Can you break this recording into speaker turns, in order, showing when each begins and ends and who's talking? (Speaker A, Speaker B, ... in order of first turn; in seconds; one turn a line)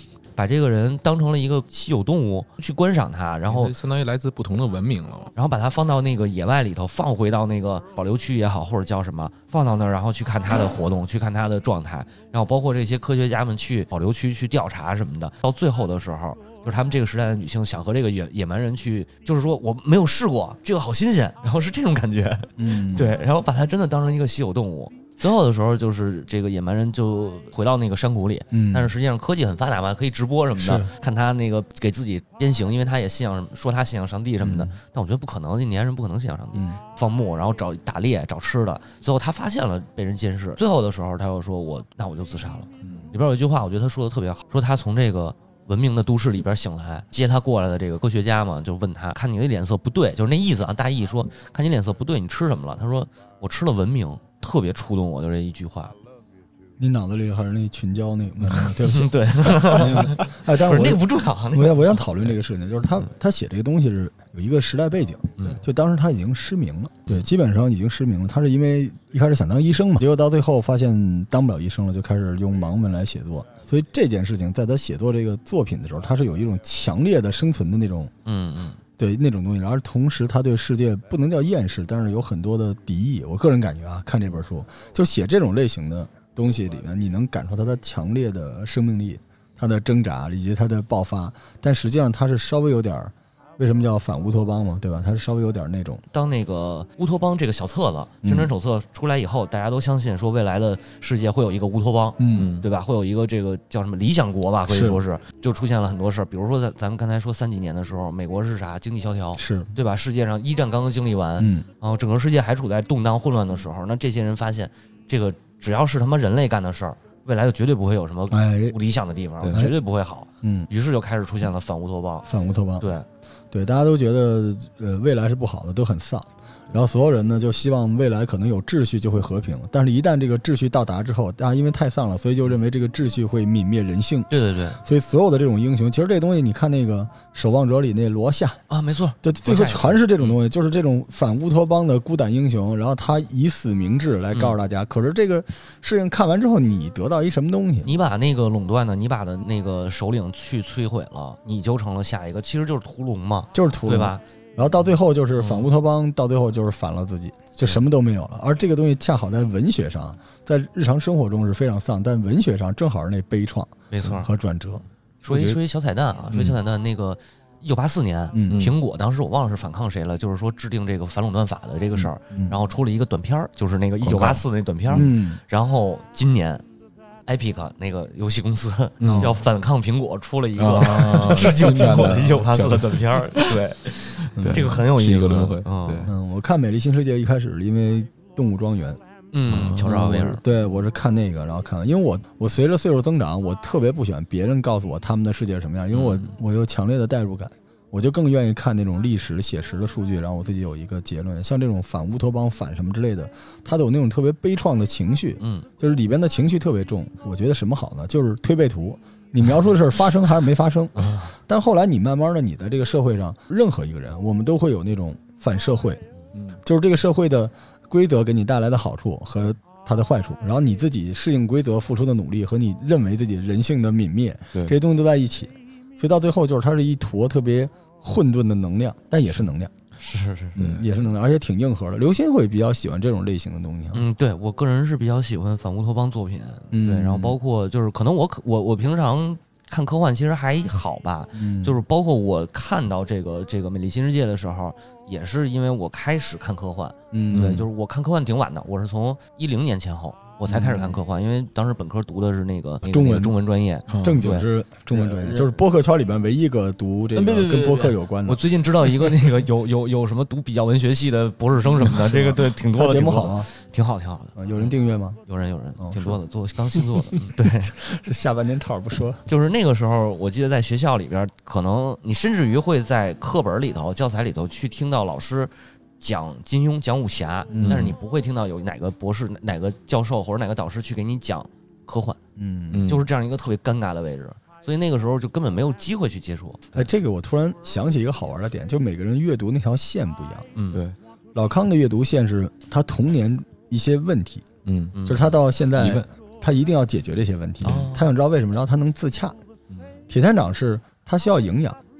Speaker A: 0.3-3.7
Speaker B: 3.5-5.3
Speaker A: 5.3-55.9
Speaker C: 22.6-23.2
Speaker C: 28.5-28.9
Speaker C: 30.5-30.9
Speaker C: 34.4-34.7
Speaker B: 42.8-43.1
Speaker C: 56.8-78.1
Speaker A: 58.5-62.1
Speaker A: 78.2-78.8
Speaker C: 79.0-96.0
Speaker A: 96.1-122.2
Speaker C: 98.2-98.5
Speaker C: 102.2-102.5
Speaker B: 102.3-102.7
Speaker C: 104.7-105.0
Speaker C: 109.3-109.7
Speaker C: 111.4-111.7
Speaker C: 118.3-118.8
Speaker C: 120.4-120.7
Speaker C: 122.2-122.9
Speaker A: 122.8-123.0
Speaker C: 123.5-138.6
Speaker A: 134.3-134.8
Speaker A: 138.7-140.3
Speaker C: 139.2-147.9
Speaker A: 147.8-154.2
Speaker C: 153.5-164.8
Speaker A: 155.4-155.7
Speaker A: 163.9-164.3
Speaker B: 165.2-165.6
Speaker A: 165.2-176.6
Speaker B: 166.3-166.6
Speaker C: 168.3-168.7
Speaker B: 168.5-168.7
Speaker C: 172.3-172.6
Speaker B: 174.0-175.1
Speaker C: 174.9-175.4
Speaker A: 177.2-186.1
Speaker B: 179.0-179.4
Speaker C: 179.0-179.3
Speaker B: 180.6-183.6
Speaker C: 181.8-182.8
Speaker C: 184.4-184.8
Speaker B: 184.4-186.1
Speaker C: 186.1-189.0
Speaker A: 189.3-190.4
Speaker B: 189.5-190.4
Speaker C: 189.9-216.0
Speaker A: 205.4-205.7
Speaker A: 210.9-211.3
Speaker C: 216.6-229.7
Speaker A: 230.0-230.6
Speaker C: 230.5-234.1
Speaker B: 230.6-230.8
Speaker A: 233.9-255.6
Speaker C: 236.7-237.4
Speaker C: 241.3-241.8
Speaker C: 247.1-247.7
Speaker B: 247.3-247.7
Speaker C: 250.4-251.0
Speaker C: 252.8-253.3
Speaker B: 253.9-254.2
Speaker C: 254.0-258.4
Speaker A: 257.1-264.7
Speaker C: 262.1-263.5
Speaker C: 264.4-265.2
Speaker A: 265.3-267.7
Speaker C: 265.8-266.2
Speaker C: 267.6-269.2
Speaker A: 269.2-282.2
Speaker C: 277.5-277.9
Speaker B: 277.6-277.9
Speaker C: 282.4-282.9
Speaker B: 282.7-283.1
Speaker A: 282.9-286.9
Speaker C: 286.7-290.4
Speaker A: 290.5-290.8
Speaker C: 291.3-294.4
Speaker B: 294.6-294.9
Speaker A: 294.9-295.4
Speaker C: 295.1-299.4
Speaker B: 295.8-296.1
Speaker A: 297.6-298.1
Speaker C: 300.1-301.8